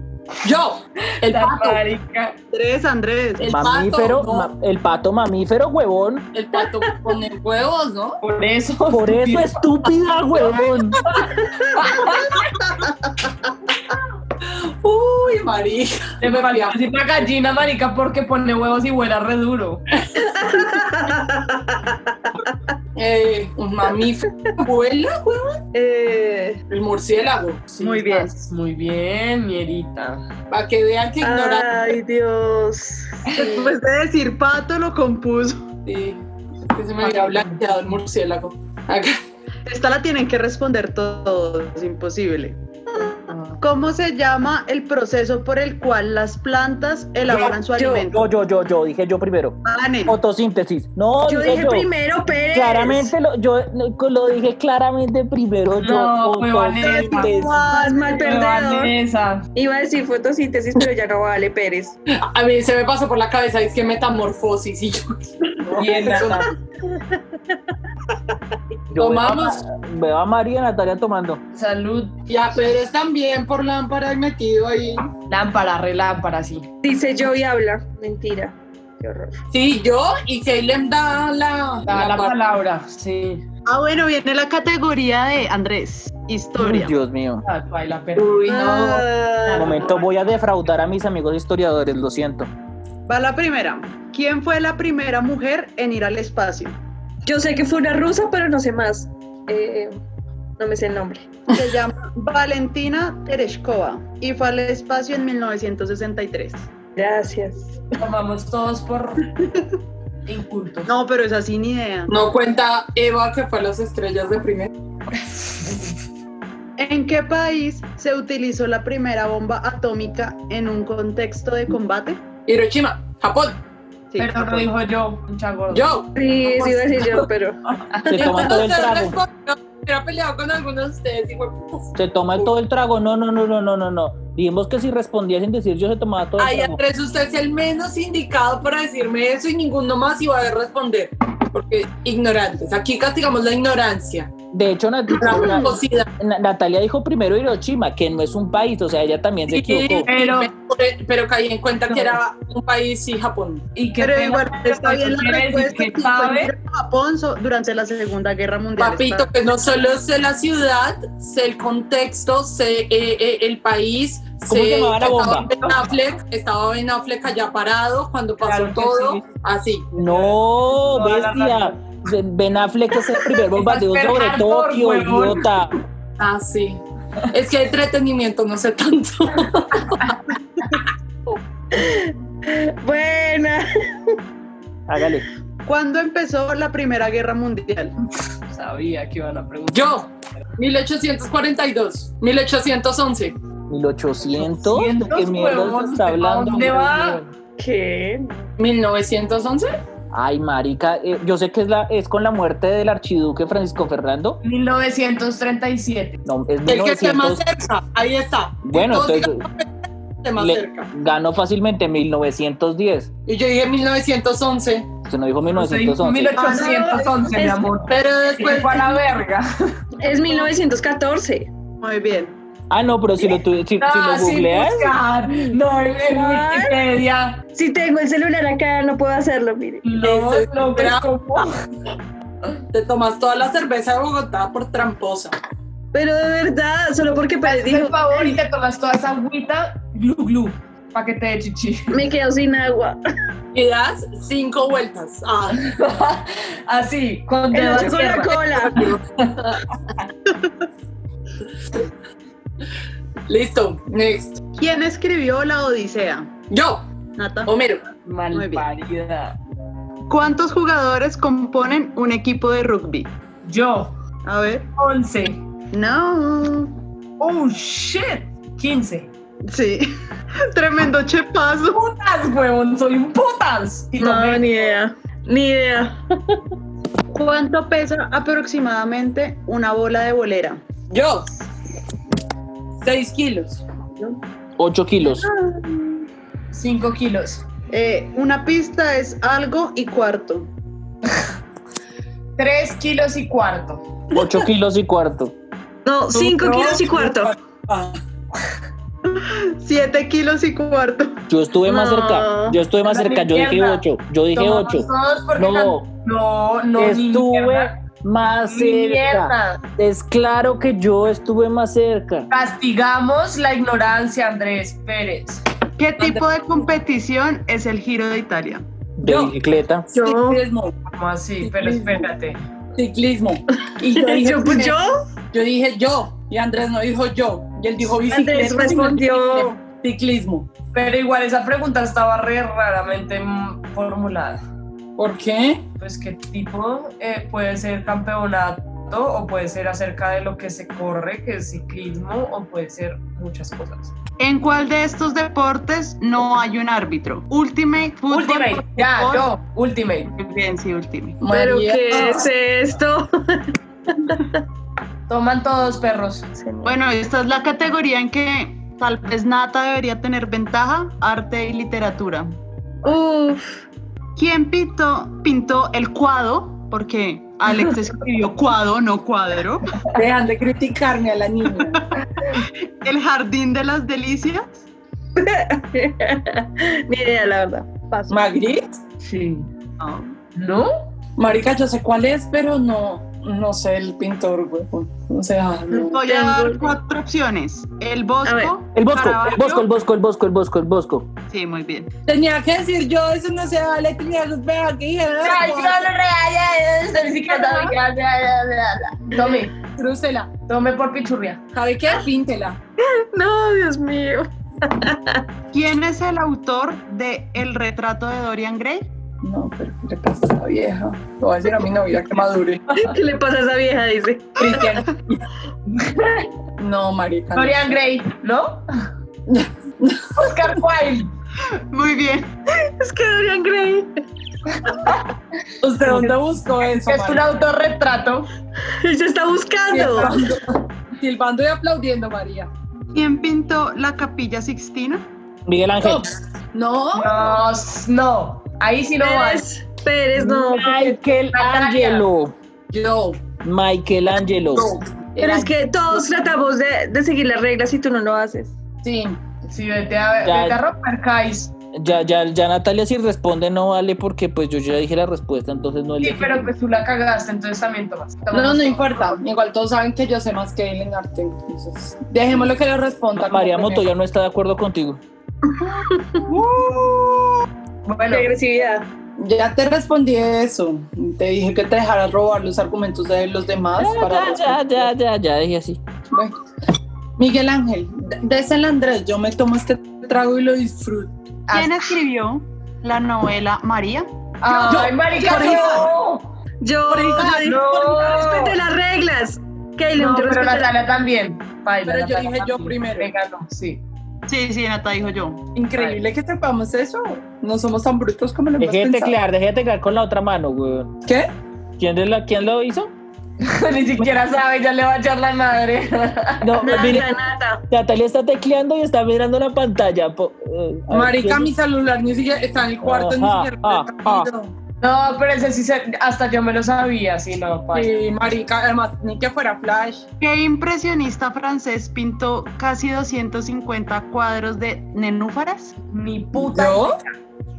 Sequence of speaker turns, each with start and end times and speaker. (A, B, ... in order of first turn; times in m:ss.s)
0:00.4-0:01.8 A
0:01.2-0:02.4 B
0:02.5-0:03.5 C
0:03.4-0:04.5 A
0:03.5-0:06.2 D
0:06.3-0:08.2 A
0:08.2-0:09.6 B
0:08.9-0:11.1 D
0:11.4-0:11.7 E
0:11.7-0:12.5 B
0:14.4-0:16.8 A
0:16.2-0:19.8 B
0:20.2-0:22.6 E
0:23.0-0:25.6 A
0:25.7-0:26.6 E
0:26.7-0:27.8 A
0:27.8-0:28.4 C
0:27.8-0:30.2 B
0:30.5-0:31.7 A
0:31.2-0:33.7 E
0:33.3-0:35.6 C
0:35.8-0:39.2 A
0:37.0-0:37.8 B
0:39.6-0:48.2 C
0:43.3-0:43.6 B
0:47.3-0:48.1 E
0:48.1-0:51.9 D
0:49.6-0:50.1 C
0:51.2-0:53.1 E
0:52.5-0:57.7 D
0:55.8-0:57.4 B
0:56.8-0:58.2 C
0:57.7-0:58.9 E
0:58.0-0:59.5 B
0:59.5-1:01.9 E
1:02.1-1:06.5 A
1:05.7-1:06.5 B
1:08.9-1:11.4 D
1:09.0-1:09.6 A
1:11.5-1:12.1 B
1:12.3-1:15.1 A
1:15.3-1:16.6 B
1:16.8-1:19.4 E
1:19.5-1:22.4 A
1:21.8-1:23.4 B
1:23.6-1:26.9 C
1:26.6-1:27.4 D
1:27.4-1:30.0 B
1:28.2-1:29.0 A
1:28.5-1:29.9 E
1:29.5-1:32.5 D
1:33.1-1:36.8 C
1:37.2-1:40.0 E
1:40.6-1:41.3 E
1:41.5-1:46.7 C
1:47.0-1:47.8 E
1:48.0-1:49.4 B
1:50.2-1:50.9 B
1:50.8-1:52.2 C
1:52.1-1:54.7 A
1:56.8-2:02.2 C
2:02.5-2:03.6 A
2:04.1-2:04.7 C
2:04.2-2:05.9 B
2:05.7-2:06.6 A
2:06.2-2:07.6 E
2:06.5-2:07.2 B
2:07.9-2:08.4 B
2:08.1-2:09.2 D
2:08.1-2:12.5 A
2:11.9-2:16.8 D
2:16.4-2:24.3 A
2:24.5-2:30.1 D
2:25.2-2:26.1 A
2:29.5-2:33.6 A
2:30.0-2:30.5 B
2:33.8-2:36.5 B
2:34.0-2:39.3 C
2:38.8-2:49.9 A
2:44.5-2:45.5 D
2:48.4-2:49.2 B
2:49.9-2:51.8 B
2:49.9-2:55.7 D
2:53.3-2:55.5 B
2:56.2-3:00.1 A
2:59.9-3:00.2 B
3:01.7-3:03.7 E
3:04.9-3:05.2 D
3:05.6-3:07.9 C
3:08.5-3:10.0 B
3:09.7-3:13.4 A
3:13.7-3:17.2 D
3:14.4-3:17.3 B
3:17.6-3:18.5 E
3:18.6-3:19.7 A
3:20.1-3:24.4 D
3:24.4-3:26.2 B
3:26.2-3:27.4 D
3:26.6-3:29.7 A
3:28.6-3:29.4 D
3:30.2-3:30.9 A
3:30.4-3:33.1 D
3:33.3-3:34.9 A
3:35.0-3:36.4 D
3:35.5-3:39.8 B
3:36.4-3:37.1 A
3:36.4-3:37.6 E
3:37.9-3:39.0 A
3:40.0-3:41.5 E
3:41.8-3:42.4 C
3:42.7-3:45.0 D
3:43.8-3:47.4 B
3:46.1-3:46.8 E
3:47.5-3:49.8 E
3:49.8-3:51.6 B
3:50.0-3:51.5 A
3:52.7-3:55.3 A
3:55.9-3:58.4 E
3:57.4-4:02.0 B
4:01.9-4:03.0 E
4:03.5-4:05.8 A
4:05.6-4:08.4 B
4:07.5-4:08.9 E
4:08.6-4:09.5 A
4:13.3-4:14.4 A
4:14.6-4:16.3 C
4:16.5-4:16.8 A
4:17.2-4:17.5 C
4:17.4-4:17.8 A
4:18.0-4:19.4 B
4:18.3-4:18.6 C
4:20.1-4:23.1 C
4:23.4-4:23.9 B
4:24.2-4:24.7 C
4:24.8-4:25.4 B
4:25.7-4:26.8 C
4:27.2-4:29.1 B
4:29.4-4:29.9 C
4:30.5-4:31.8 C
4:31.7-4:34.6 B
4:34.0-4:36.4 E
4:37.1-4:40.6 C
4:40.9-4:41.3 A
4:42.8-4:43.6 A
4:44.6-4:45.2 D
4:45.1-4:45.9 C
4:46.5-4:47.4 B
4:47.7-4:50.5 C
4:52.4-4:53.8 B
4:54.1-4:55.3 D
4:55.8-4:57.3 E
4:56.1-4:58.0 A
4:59.0-5:01.2 C
5:01.3-5:05.9 D
5:01.6-5:02.6 E
5:02.8-5:07.8 B
5:06.8-5:12.3 D
5:08.5-5:09.6 B
5:12.3-5:15.4 B
5:15.8-5:18.6 C
5:19.0-5:19.8 D
5:19.0-5:19.3 A
5:19.9-5:20.4 E
5:19.9-5:20.7 A
5:20.9-5:22.4 B
5:21.4-5:22.1 A
5:22.8-5:24.8 A
5:23.9-5:24.9 E
5:25.3-5:30.5 A
5:28.1-5:29.5 E
5:28.4-5:29.0 B
5:30.7-5:34.4 B
5:35.0-5:35.6 A
5:35.8-5:43.9 B
5:44.2-5:49.3 C
5:48.1-5:50.1 B
5:50.1-5:51.2 C
5:51.2-5:52.3 A
5:51.3-5:54.4 E
5:55.1-5:56.3 B
5:56.4-5:56.8 E
5:56.6-6:02.3 C
6:02.8-6:03.6 E
6:04.2-6:09.7 C
6:09.9-6:11.8 A
6:11.6-6:14.6 C
6:15.2-6:18.2 E
6:18.1-6:18.6 A
6:19.0-6:19.5 B
6:19.8-6:20.1 C
6:20.3-6:20.7 B
6:21.2-6:26.0 A
6:25.7-6:26.8 E
6:25.8-6:29.6 C
6:28.2-6:28.5 E
6:28.7-6:31.1 D
6:31.3-6:31.9 C
6:32.1-6:35.8 A
6:35.2-6:39.5 B
6:39.2-6:40.3 A
6:40.5-6:41.4 B
6:41.5-6:42.6 A
6:42.8-6:45.2 E
6:45.5-6:48.9 C
6:49.2-6:52.9 A
6:52.7-6:54.7 E
6:54.4-6:55.2 A
6:55.7-6:56.3 B
6:56.6-6:57.8 A
6:57.3-6:58.6 B
6:59.3-7:00.1 A
7:00.2-7:01.1 B
7:01.7-7:02.3 C
7:02.6-7:04.0 E
7:04.6-7:05.0 B
7:05.6-7:07.3 A
7:05.8-7:06.2 B
7:06.8-7:08.3 B
7:08.7-7:10.2 E
7:09.7-7:12.5 A
7:09.8-7:10.2 B
7:12.9-7:15.0 C
7:15.4-7:16.1 D
7:15.8-7:17.3 A
7:16.9-7:19.4 B
7:19.0-7:20.9 E
7:20.2-7:22.3 D
7:20.5-7:22.0 B
7:22.7-7:23.2 A
7:23.4-7:24.7 D
7:24.5-7:25.5 A
7:25.2-7:28.5 E
7:28.8-7:29.2 A
7:29.5-7:31.5 B
7:30.2-7:30.6 D
7:31.7-7:36.5 D
7:36.0-7:39.2 B
7:38.3-7:43.9 A
7:43.2-7:45.0 D
7:45.6-7:46.2 E
7:47.8-7:48.3 B
7:48.1-7:48.8 E
7:49.2-7:54.9 A
7:53.8-7:55.8 D
7:57.2-8:01.1 A
8:01.5-8:01.7 B
8:01.5-8:04.1 C
8:04.4-8:06.3 B
8:04.6-8:05.9 A
8:05.2-8:05.8 C
8:06.6-8:10.8 E
8:06.9-8:07.9 A
8:07.3-8:08.6 B
8:09.9-8:13.8 B
8:11.8-8:13.1 A
8:14.3-8:15.5 C
8:15.5-8:16.0 B
8:15.7-8:19.1 A
8:18.6-8:20.9 D
8:21.8-8:22.9 D
8:23.4-8:27.0 B
8:26.4-8:27.1 D
8:26.6-8:27.6 E
8:27.7-8:31.5 D
8:30.9-8:34.5 A
8:32.8-8:34.3 D
8:34.8-8:37.9 B
8:37.7-8:40.0 A
8:40.2-8:45.8 C
8:45.9-8:47.1 B
8:46.3-8:47.0 A